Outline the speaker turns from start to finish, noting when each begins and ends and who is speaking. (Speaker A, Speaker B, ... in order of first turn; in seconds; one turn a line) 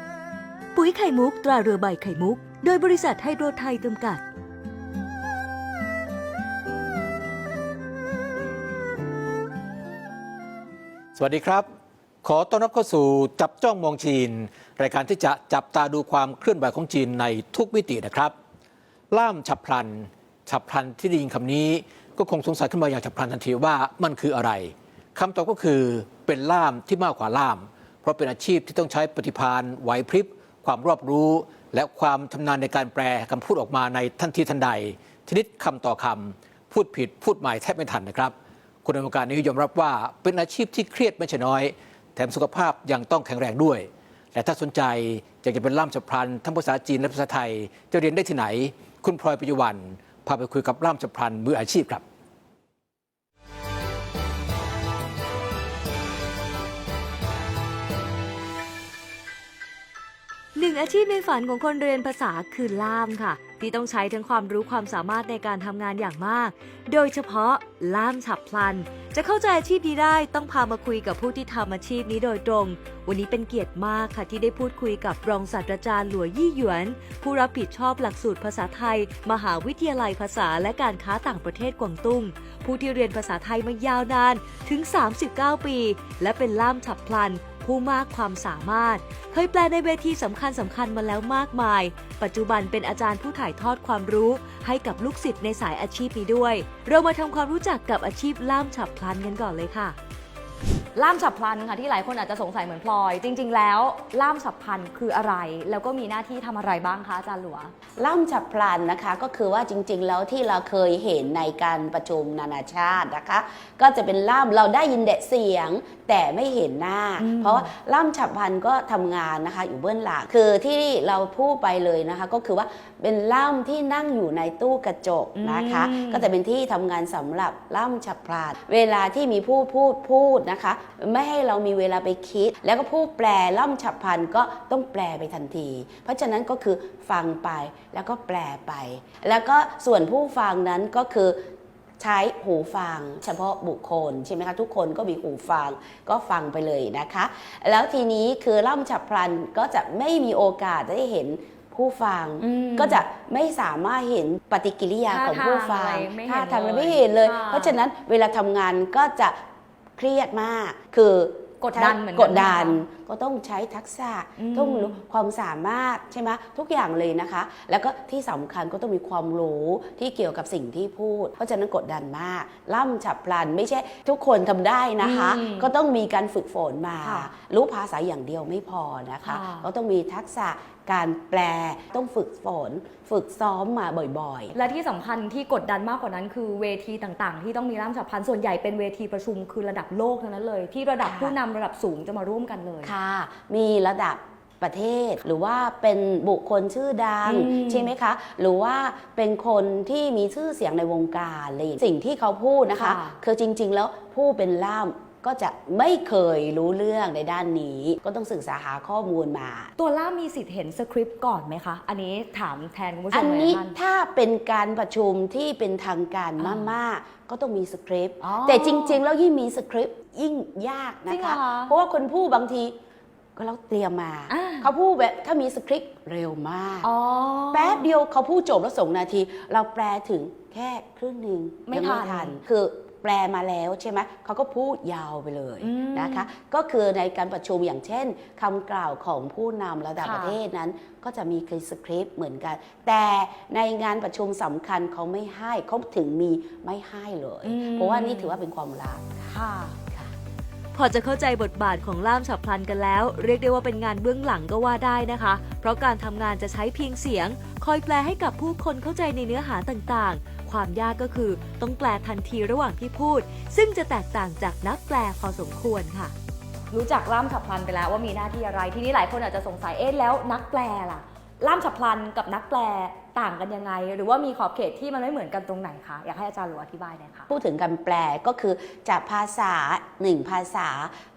Speaker A: 0.7-4.2
Speaker B: 11.2-11.7
Speaker B: 12.2-18.3
Speaker B: 19.1-52.0
Speaker A: 60.5-100.0
Speaker C: 101.0-107.7
Speaker D: 108.0-141.4
Speaker C: 117.2-117.7
Speaker C: 125.4-126.3
Speaker D: 142.0-159.4
Speaker C: 152.4-153.0
Speaker C: 155.1-157.8
Speaker D: 160.0-184.6
Speaker C: 161.6-162.8
Speaker C: 164.4-165.0
Speaker C: 175.0-175.7
Speaker C: 177.0-177.3
Speaker C: 179.2-179.7
Speaker C: 184.5-192.9
Speaker D: 191.0-191.4
Speaker D: 192.8-209.7
Speaker C: 197.3-197.9
Speaker C: 202.8-203.2
Speaker C: 209.8-213.7
Speaker D: 213.1-222.8
Speaker C: 216.4-216.7
Speaker C: 218.2-219.0
Speaker C: 221.1-221.8
Speaker D: 223.4-226.9
Speaker C: 224.3-224.7
Speaker C: 226.8-227.8
Speaker D: 227.5-249.3
Speaker C: 231.7-232.3
Speaker C: 235.6-236.3
Speaker C: 240.0-240.4
Speaker C: 247.4-248.3
Speaker C: 249.3-249.8
Speaker D: 249.9-250.1
Speaker A: 250.7-266.1
Speaker C: 266.7-277.3
Speaker D: 277.3-280.9